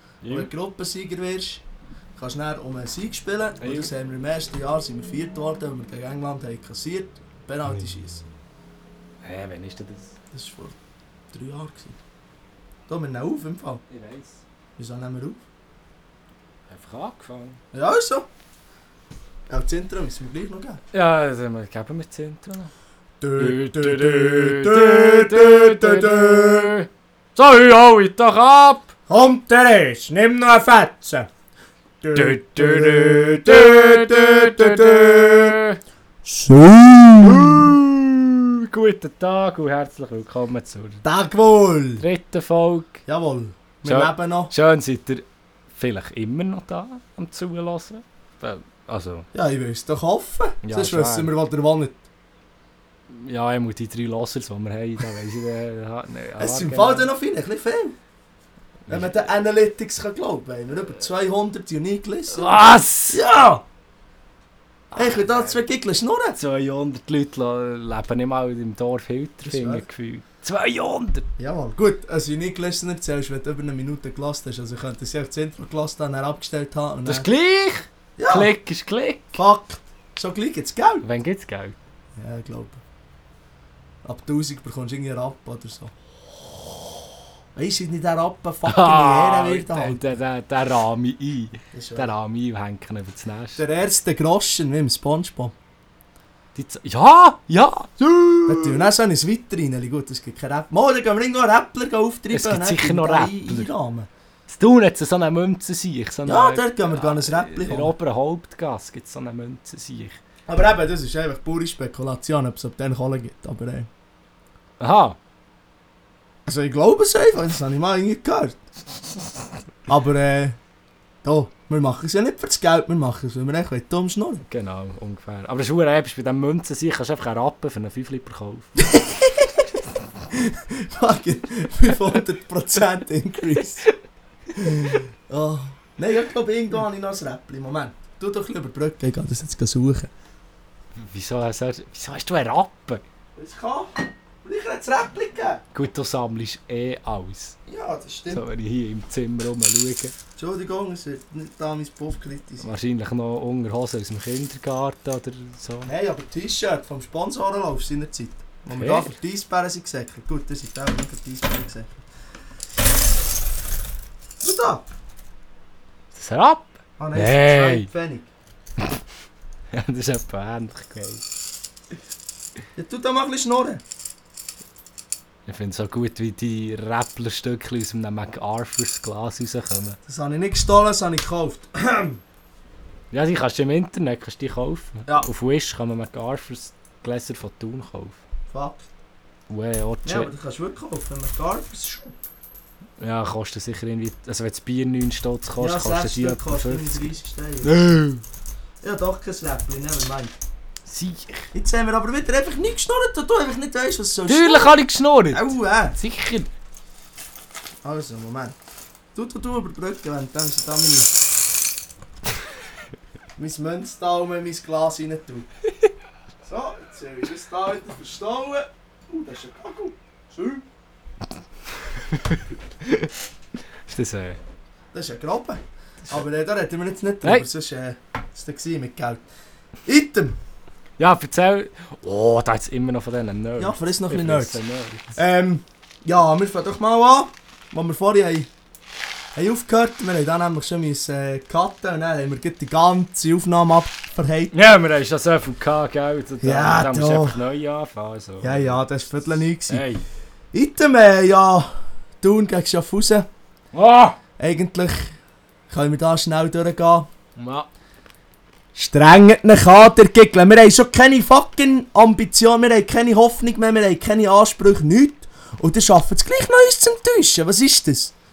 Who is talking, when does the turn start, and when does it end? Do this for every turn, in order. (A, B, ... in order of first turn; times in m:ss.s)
0:00.2-0:00.5 A
0:00.3-0:01.6 B
0:02.2-0:08.2 B
0:03.6-0:03.9 A
0:09.2-0:10.1 A
0:10.3-0:10.8 B
0:11.3-0:12.0 B
0:12.9-0:13.8 B
0:13.9-0:14.4 A
0:14.8-0:15.4 B
0:16.7-0:17.6 A
0:17.7-0:18.3 B
0:19.5-0:20.8 B
0:20.9-0:22.7 A
0:23.2-0:26.7 B
0:23.4-0:28.9 A
0:29.1-0:31.3 B
0:32.0-0:35.6 B
0:32.2-0:35.8 A
0:36.2-0:37.8 B
0:37.2-0:41.0 A
0:41.0-0:42.0 B
0:42.0-0:43.0 A
0:43.1-0:44.5 B
0:43.9-0:49.3 A
0:49.3-0:52.0 B
0:50.6-0:51.3 A
0:53.1-0:57.1 A
0:56.4-0:58.0 B
0:58.9-1:03.6 B
1:02.3-1:03.2 A
1:04.9-1:05.6 A
1:05.0-1:06.4 B
1:06.4-1:11.3 A
1:09.4-1:09.8 B
1:11.4-1:17.3 B
1:17.1-1:19.4 A
1:18.2-1:18.5 B
1:19.4-1:21.0 B
1:21.0-1:21.8 A
1:22.2-1:22.8 B
1:24.0-1:25.9 B
1:27.6-1:30.0 B
1:28.7-1:33.6 A
1:31.7-1:32.1 B
1:33.6-1:35.5 B
1:36.6-1:38.9 A
1:38.5-1:44.1 B
1:42.3-1:43.7 A
1:44.5-1:50.2 A
1:46.3-1:47.9 B
1:50.5-1:53.9 B
1:54.8-1:55.2 A
1:56.5-1:58.6 B
1:59.9-2:00.6 B
2:01.2-2:04.4 B
2:04.5-2:08.8 A
2:08.8-2:09.7 B
2:10.3-2:13.9 B
2:14.6-2:20.1 B
2:21.0-2:23.0 A
2:23.4-2:25.6 B
2:25.7-2:27.6 A
2:27.7-2:28.4 B
2:28.3-2:30.1 A
2:30.4-2:32.7 B
2:32.6-2:35.9 A
2:35.8-2:42.0 B
2:38.7-2:39.1 A
2:44.4-2:44.8 B
2:46.1-2:47.9 A
2:47.0-2:48.3 B
2:49.7-2:51.2 A
2:52.8-2:53.8 B
2:55.5-3:00.0 A
3:00.1-3:02.2 B
3:03.1-3:08.2 A
3:08.5-3:08.8 B
3:09.5-3:10.3 A
3:10.0-3:12.2 B
3:13.0-3:17.1 A
3:15.6-3:17.8 B
3:17.6-3:18.2 A
3:18.8-3:20.3 B
3:20.9-3:21.5 A
3:21.5-3:24.8 B
3:24.3-3:26.5 A
3:25.3-3:26.0 B
3:27.8-3:28.6 B
3:29.2-3:31.1 B
3:33.4-3:35.5 B
3:36.4-3:40.6 B
3:42.1-3:43.1 A
3:43.9-3:44.4 A
3:44.9-3:49.2 B
3:49.9-3:50.4 B
3:51.0-3:55.2 A
3:53.6-3:54.6 B
3:55.2-3:58.5 B
3:59.4-4:04.5 B
4:04.5-4:08.8 A
4:06.4-4:07.4 B
4:08.4-4:09.8 B
4:09.7-4:10.0 A
4:10.5-4:13.3 B
4:13.7-4:14.2 A
4:14.4-4:15.1 B
4:15.7-4:17.1 B
4:17.4-4:17.7 A
4:18.8-4:28.1 B